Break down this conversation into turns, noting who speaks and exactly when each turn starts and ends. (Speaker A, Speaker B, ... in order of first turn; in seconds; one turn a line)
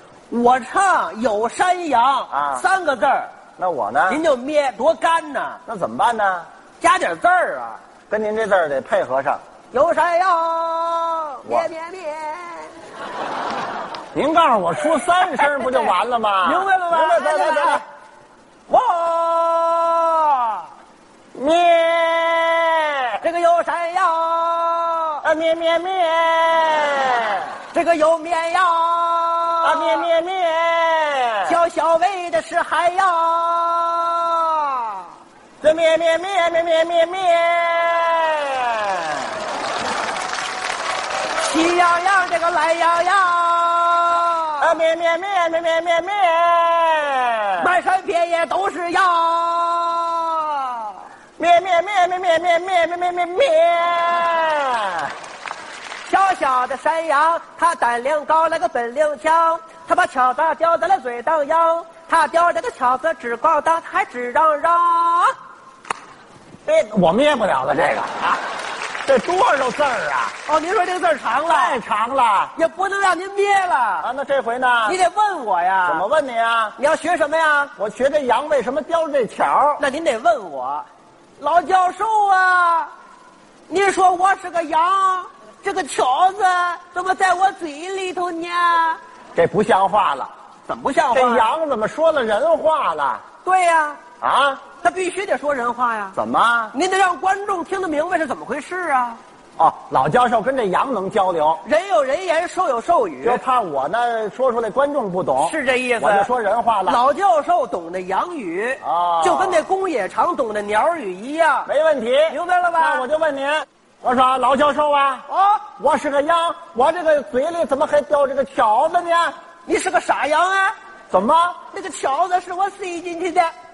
Speaker A: 0.3-3.3
Speaker B: 2.3-2.6
Speaker B: 3.6-4.2
Speaker A: 4.1-5.6
Speaker B: 5.7-6.5
Speaker A: 6.8-7.8
Speaker B: 8.1-9.4
Speaker A: 9.7-12.7
Speaker B: 14.1-17.8
Speaker A: 15.4-17.8
Speaker A: 18.7-20.7
Speaker B: 21.3-23.2
Speaker A: 23.2-25.2
Speaker B: 25.2-27.6
Speaker A: 27.7-30.1
Speaker B: 29.6-31.6
Speaker A: 31.4-35.1
Speaker B: 35.6-39.4
Speaker A: 41.4-44.8
Speaker B: 44.6-47.7
Speaker A: 47.6-51.0
Speaker B: 51.4-55.1
Speaker A: 56.0-65.3
Speaker B: 66.6-68.4
Speaker B: 69.0-70.3
Speaker A: 70.5-71.8
Speaker B: 71.5-72.5
Speaker A: 72.5-74.1
Speaker B: 74.0-75.0
Speaker A: 74.8-76.1
Speaker B: 75.8-76.8
Speaker A: 76.8-77.7
Speaker B: 77.8-79.8
Speaker A: 79.8-80.8
Speaker A: 81.4-82.9
Speaker A: 83.7-89.0
Speaker B: 89.3-90.3
Speaker A: 90.7-91.5
Speaker B: 91.1-93.2
Speaker A: 93.4-94.0
Speaker B: 94.2-94.6
Speaker A: 94.8-96.2
Speaker B: 96.1-96.8
Speaker A: 96.7-99.2
Speaker B: 99.6-101.6
Speaker A: 101.6-103.4
Speaker B: 103.2-107.0
Speaker A: 105.4-106.3
Speaker A: 106.9-111.7
Speaker B: 108.8-109.7
Speaker B: 111.7-115.2
Speaker A: 112.3-113.1
Speaker A: 115.3-115.6
Speaker B: 115.8-119.3
Speaker A: 119.7-120.7
Speaker B: 121.1-121.6
Speaker A: 121.7-123.5